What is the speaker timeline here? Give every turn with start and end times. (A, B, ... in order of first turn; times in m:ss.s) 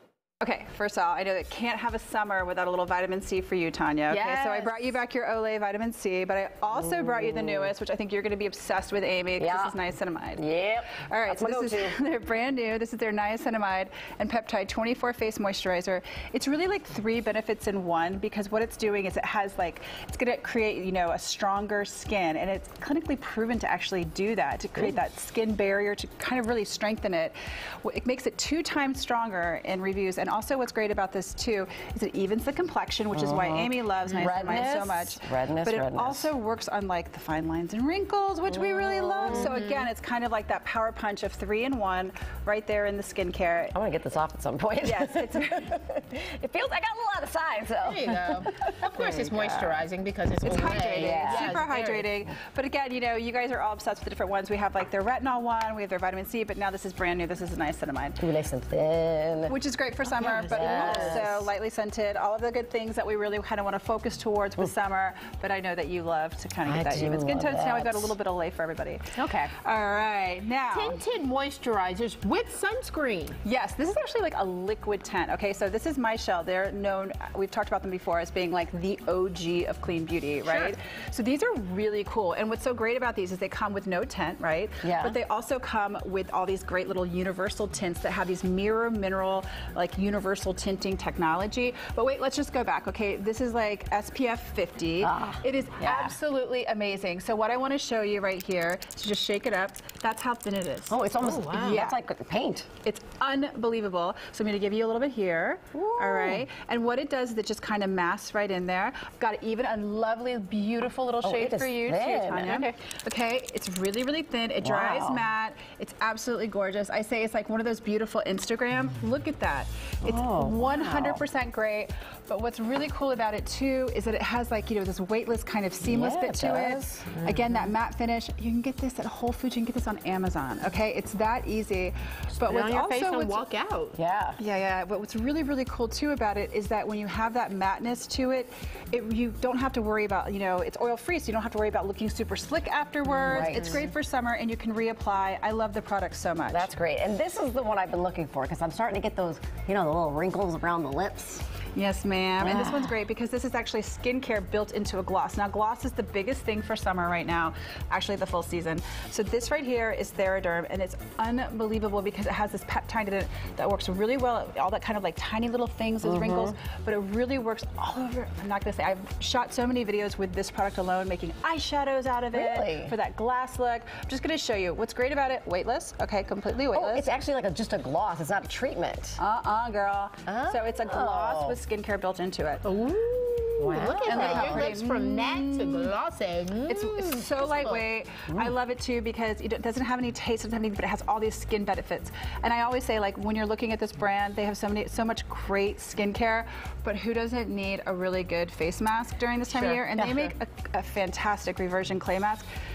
0:00.4-0:10.4 A
0:04.1-0:05.0 B
0:06.8-0:07.7 C
0:09.4-0:09.8 C
0:10.3-0:12.0 C
0:10.9-0:43.7 A
0:33.1-0:36.3 C
0:38.5-0:39.6 C
0:43.7-0:49.8 C
0:44.8-0:45.8 A
0:47.8-0:52.1 B
0:50.4-0:58.2 A
0:50.9-0:51.6 C
0:58.2-0:59.6 C
0:59.5-1:11.0 A
1:00.2-1:01.5 C
1:00.2-1:01.2 B
1:06.6-1:08.1 C
1:09.1-1:09.5 B
1:10.7-1:13.4 B
1:13.4-1:42.0 A
1:20.4-1:20.7 B
1:24.8-1:25.2 C
1:35.0-1:36.2 C
1:40.9-1:42.7 C
1:42.8-2:13.4 A
1:45.7-1:46.4 C
1:51.2-1:52.6 C
1:52.4-1:52.7 B
1:54.6-1:55.2 C
2:00.0-2:01.2 C
2:05.8-2:07.4 C
2:12.4-2:14.0 B
2:13.9-2:14.4 C
2:14.4-2:26.7 A
2:23.2-2:23.8 C
2:23.3-2:23.5 B
2:26.5-2:31.4 C
2:31.8-2:57.1 A
2:32.4-2:32.8 C
2:46.0-2:46.5 C
2:52.3-2:52.9 C
2:56.7-2:59.2 C
2:59.2-3:02.6 A
3:00.2-3:01.6 C
3:02.6-3:07.8 B
3:03.6-3:04.8 C
3:04.0-3:05.9 A
3:06.7-3:22.5 A
3:19.6-3:20.3 C